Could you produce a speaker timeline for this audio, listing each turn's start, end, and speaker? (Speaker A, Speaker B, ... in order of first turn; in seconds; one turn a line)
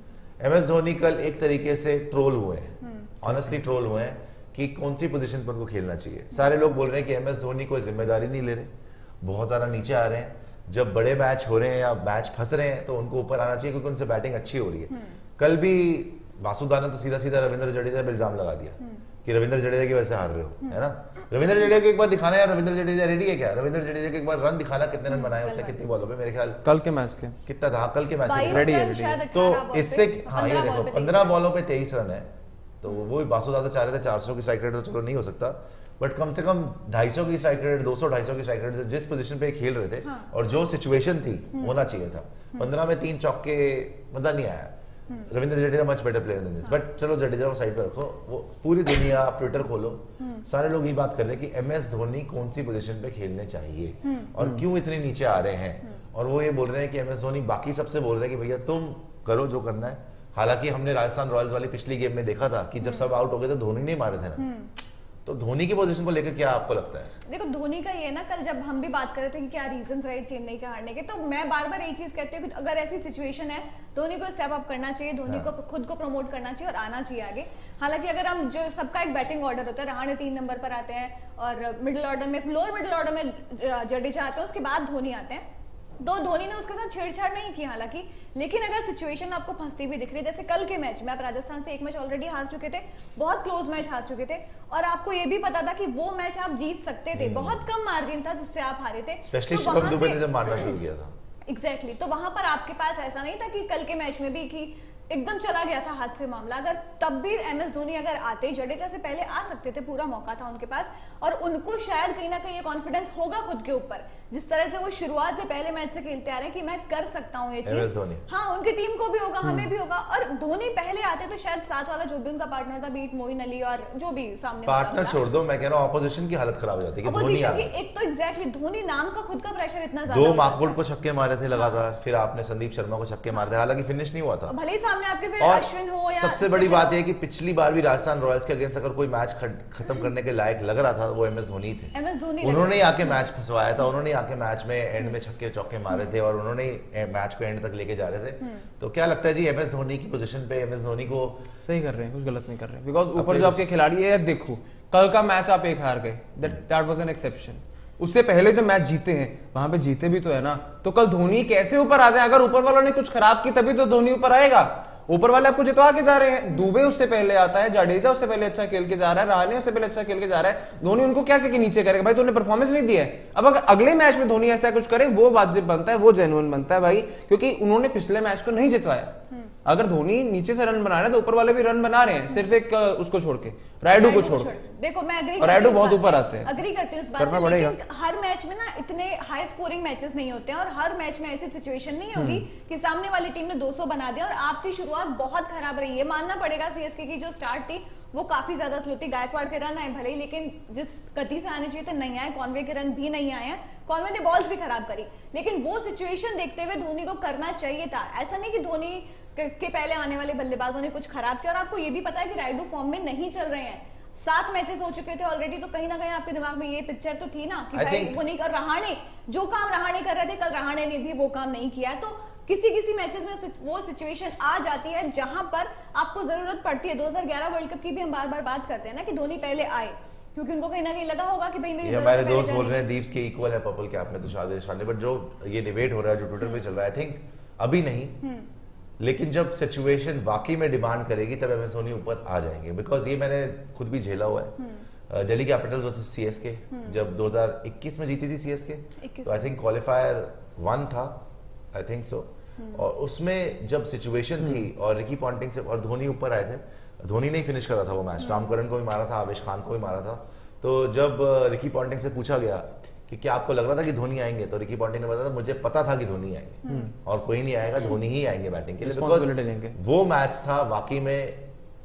Speaker A: 0.4-8.7
Speaker A: 9.2-26.6
Speaker B: 25.1-25.8
Speaker C: 26.6-27.4
Speaker A: 27.4-32.3
Speaker B: 28.2-31.4
Speaker C: 28.5-29.2
Speaker A: 32.8-64.5
Speaker B: 40.0-40.3
Speaker B: 62.8-63.1
Speaker B: 64.4-64.7
Speaker A: 65.3-67.1
Speaker B: 67.3-85.4
Speaker B: 86.0-100.8
Speaker A: 97.1-97.6
Speaker A: 99.3-101.1
Speaker B: 101.5-125.2
Speaker A: 117.7-118.2
Speaker A: 124.7-127.7
Speaker B: 127.0-130.8
Speaker A: 130.1-134.5
Speaker B: 131.5-131.8
Speaker B: 134.5-137.0
Speaker A: 135.4-151.4
Speaker B: 141.9-143.2
Speaker C: 151.6-179.1
Speaker A: 153.2-153.6
Speaker C: 179.7-184.5
Speaker B: 183.9-232.9
Speaker C: 185.4-186.5
Speaker C: 187.2-187.8
Speaker C: 192.2-192.5
Speaker A: 217.7-218.2
Speaker A: 231.8-238.2
Speaker B: 238.2-238.5
Speaker A: 239.0-244.6
Speaker A: 245.1-251.2
Speaker B: 246.7-247.0
Speaker B: 249.0-249.5
Speaker A: 251.7-271.4
Speaker B: 252.6-252.8
Speaker B: 258.2-258.6
Speaker B: 266.7-266.9
Speaker C: 268.8-269.8